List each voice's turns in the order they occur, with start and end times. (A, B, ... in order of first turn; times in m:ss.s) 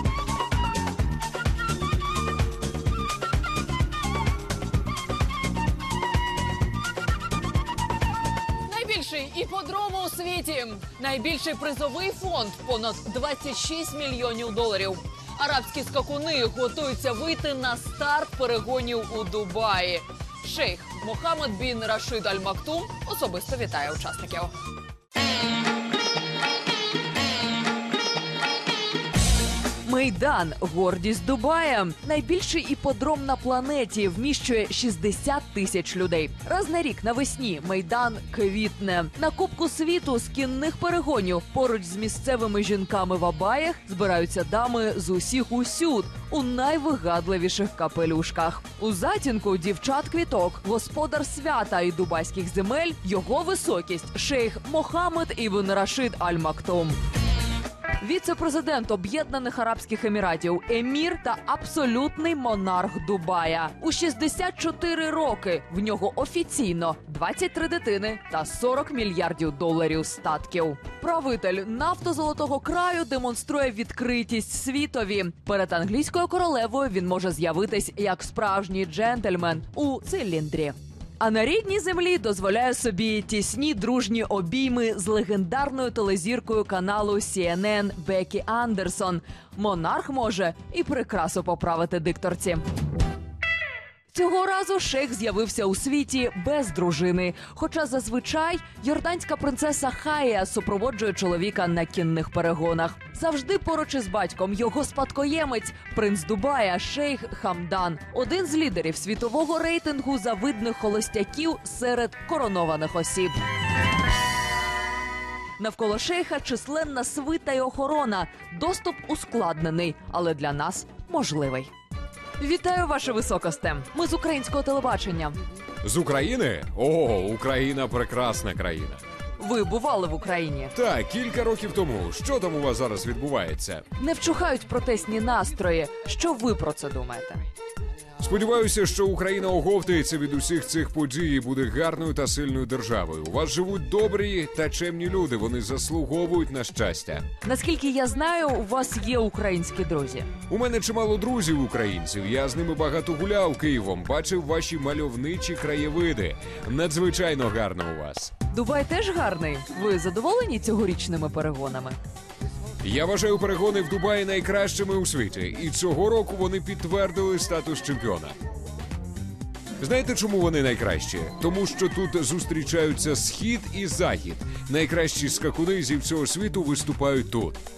0:08.6-0:24.6 A
0:29.8-0:57.0 A
0:58.0-1:32.6 A
1:34.1-1:53.4 A
1:55.6-2:01.7 A
2:02.4-2:05.4 A
2:05.8-2:09.0 B
2:09.4-2:10.7 A
2:10.8-2:13.8 B
2:14.0-2:17.4 A
2:18.2-2:27.3 B
2:27.4-2:30.3 A
2:30.5-2:38.3 B
2:38.5-2:42.0 A
2:42.8-2:48.4 B
2:49.8-2:57.6 B